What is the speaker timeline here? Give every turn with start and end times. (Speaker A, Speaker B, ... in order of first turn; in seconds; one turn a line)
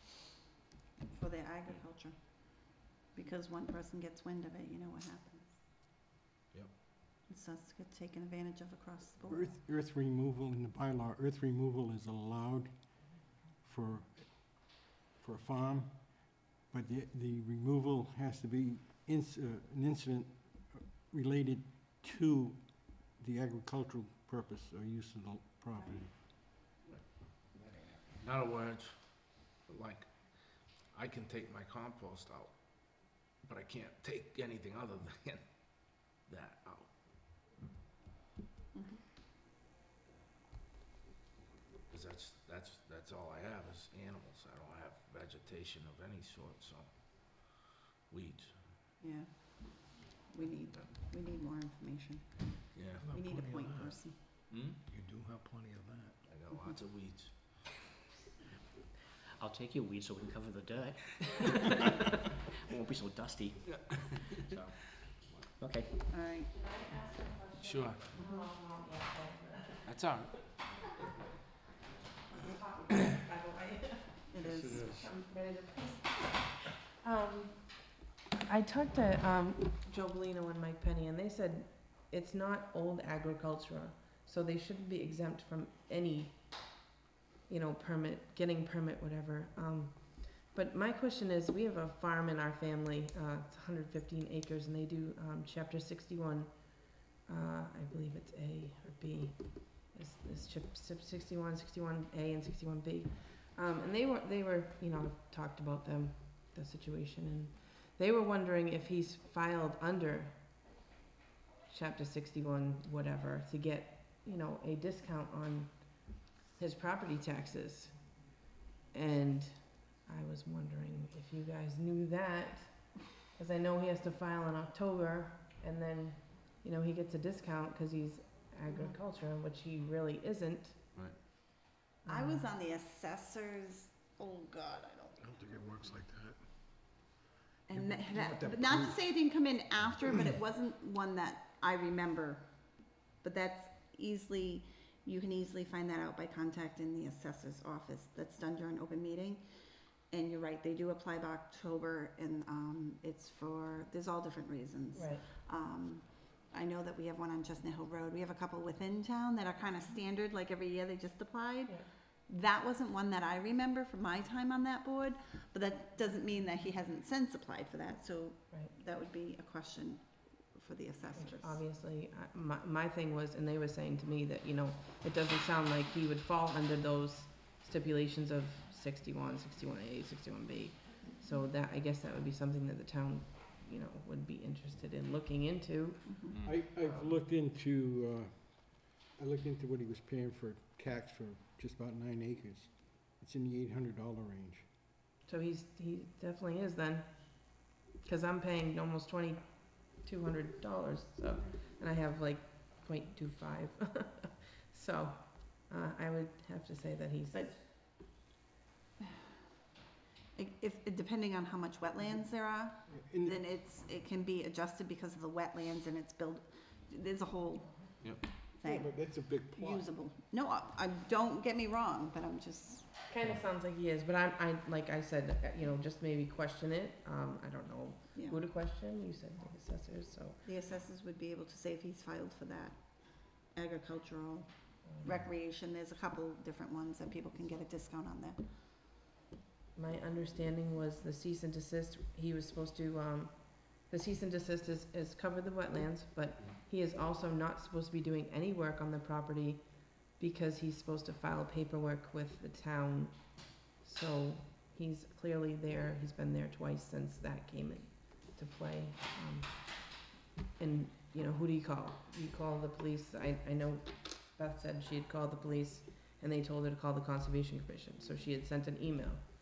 Speaker A: 1.1-5.6
Speaker A: 7.3-9.5
Speaker B: 9.3-26.1
Speaker C: 28.2-30.3
Speaker C: 30.9-35.4
Speaker C: 36.2-37.0
Speaker A: 38.7-39.0
Speaker C: 41.9-47.5
Speaker C: 48.1-48.6
Speaker A: 49.0-54.2
Speaker C: 52.7-53.1
Speaker D: 53.0-53.9
Speaker C: 54.5-54.8
Speaker D: 54.9-56.2
Speaker C: 56.2-57.4
Speaker E: 59.4-64.7
Speaker C: 63.9-64.6
Speaker E: 65.6-65.9
Speaker A: 66.1-66.5
Speaker F: 66.5-69.9
Speaker C: 67.6-68.1
Speaker C: 69.8-70.5
Speaker F: 72.3-74.3
Speaker A: 74.3-75.0
Speaker F: 74.9-86.8
Speaker F: 87.5-110.5
Speaker F: 111.7-118.2
Speaker F: 118.9-130.8
Speaker A: 128.7-129.0
Speaker F: 132.0-132.5
Speaker A: 132.1-135.4
Speaker D: 135.2-136.5
Speaker A: 137.7-149.4
Speaker D: 137.8-138.4
Speaker A: 150.1-171.6
Speaker F: 154.9-155.2
Speaker F: 171.1-187.2
Speaker B: 186.4-194.7
Speaker F: 195.2-207.6
Speaker A: 210.3-222.9
Speaker B: 212.9-213.4
Speaker C: 218.0-218.3
Speaker B: 218.6-219.9
Speaker F: 223.1-230.4
Speaker A: 230.4-238.4
Speaker F: 234.8-235.2
Speaker F: 239.7-269.2